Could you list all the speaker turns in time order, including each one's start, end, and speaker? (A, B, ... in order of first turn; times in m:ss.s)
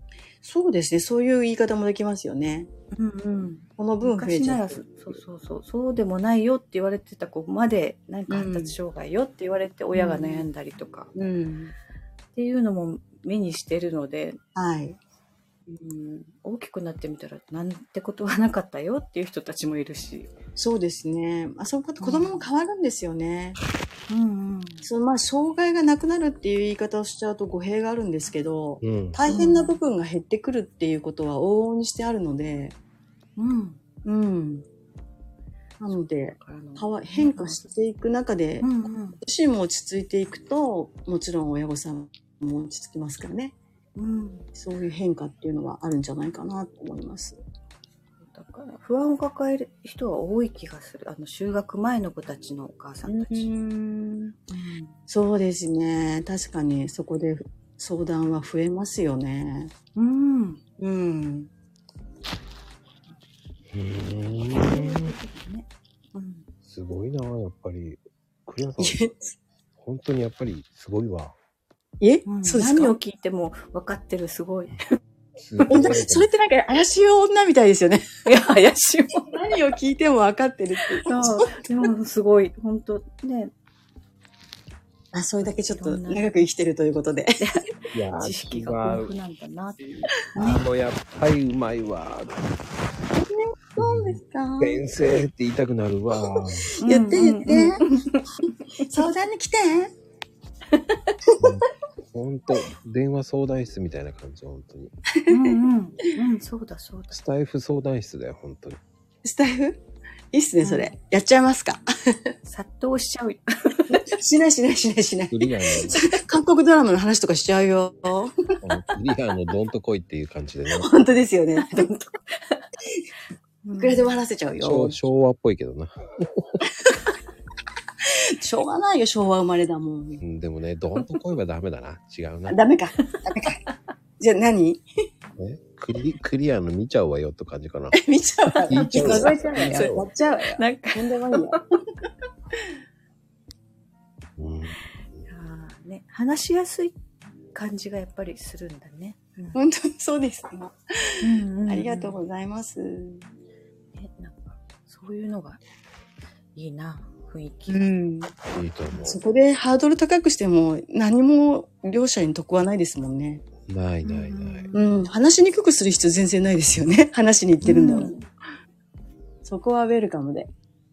0:00.4-0:02.7 A
0:02.9-0:11.1 B
0:03.8-0:04.9 A
0:08.3-0:08.8 A
0:09.9-0:10.5 A
0:11.2-0:11.7 A
0:12.4-0:14.4 B
0:14.6-0:15.0 A
0:15.7-0:20.3 B
0:20.6-0:23.6 A
0:22.0-0:22.5 B
0:24.1-0:24.9 B
0:24.8-0:32.8 A
0:28.8-0:29.2 C
0:29.3-0:29.8 B
0:33.4-0:33.8 B
0:34.0-0:34.6 A
0:35.8-0:43.6 A
0:36.4-0:37.6 B
0:38.6-0:39.2 B
0:44.0-0:44.5 B
0:44.6-0:47.4 A
0:48.2-0:53.5 B
0:53.1-0:54.4 A
0:54.5-0:55.0 B
0:55.1-0:59.7 A
1:00.0-1:00.6 B
1:00.8-1:01.5 A
1:03.7-1:05.2 C
1:04.6-1:06.5 B
1:06.6-1:09.2 C
1:08.8-1:09.3 A
1:09.8-1:11.4 C
1:12.0-1:13.0 A
1:12.3-1:14.8 B
1:15.4-1:16.3 C
1:15.7-1:18.1 A
1:18.2-1:19.3 B
1:19.3-1:21.6 A
1:21.0-1:23.5 B
1:25.1-1:27.6 A
1:25.4-1:26.3 B
1:27.4-1:30.6 B
1:27.9-1:29.2 C
1:30.4-1:32.5 C
1:33.1-1:34.8 A
1:33.8-1:36.7 C
1:36.3-1:37.8 A
1:36.8-1:38.3 B
1:38.8-1:39.9 A
1:41.4-1:44.9 C
1:45.2-1:45.5 A
1:45.3-1:47.2 B
1:47.1-1:48.8 C
1:49.2-1:49.8 A
1:50.3-1:52.3 A
1:50.6-1:50.9 B
1:52.5-1:54.1 B
1:53.9-1:58.3 A
1:55.3-1:56.0 C
1:58.6-2:00.9 C
2:00.7-2:02.0 A
2:03.6-2:04.2 B
2:03.8-2:05.0 A
2:04.6-2:06.6 C
2:08.2-2:10.2 A
2:10.2-2:12.6 C
2:12.5-2:13.6 A
2:14.2-2:14.8 A
2:15.4-2:18.0 C
2:18.0-2:21.6 A
2:18.7-2:20.1 C
2:18.7-2:21.6 B
2:24.4-2:24.8 C
2:25.3-2:27.0 B
2:27.5-2:29.6 B
2:29.5-2:30.8 A
2:31.2-2:32.2 B
2:31.7-2:33.2 A
2:34.0-2:35.6 B
2:36.6-2:37.9 B
2:37.7-2:38.3 A
2:38.5-2:39.2 C
2:39.0-2:43.4 A
2:43.6-2:44.7 C
2:44.0-2:45.1 B
2:44.7-2:48.2 A
2:47.7-2:48.2 B
2:49.4-2:50.5 A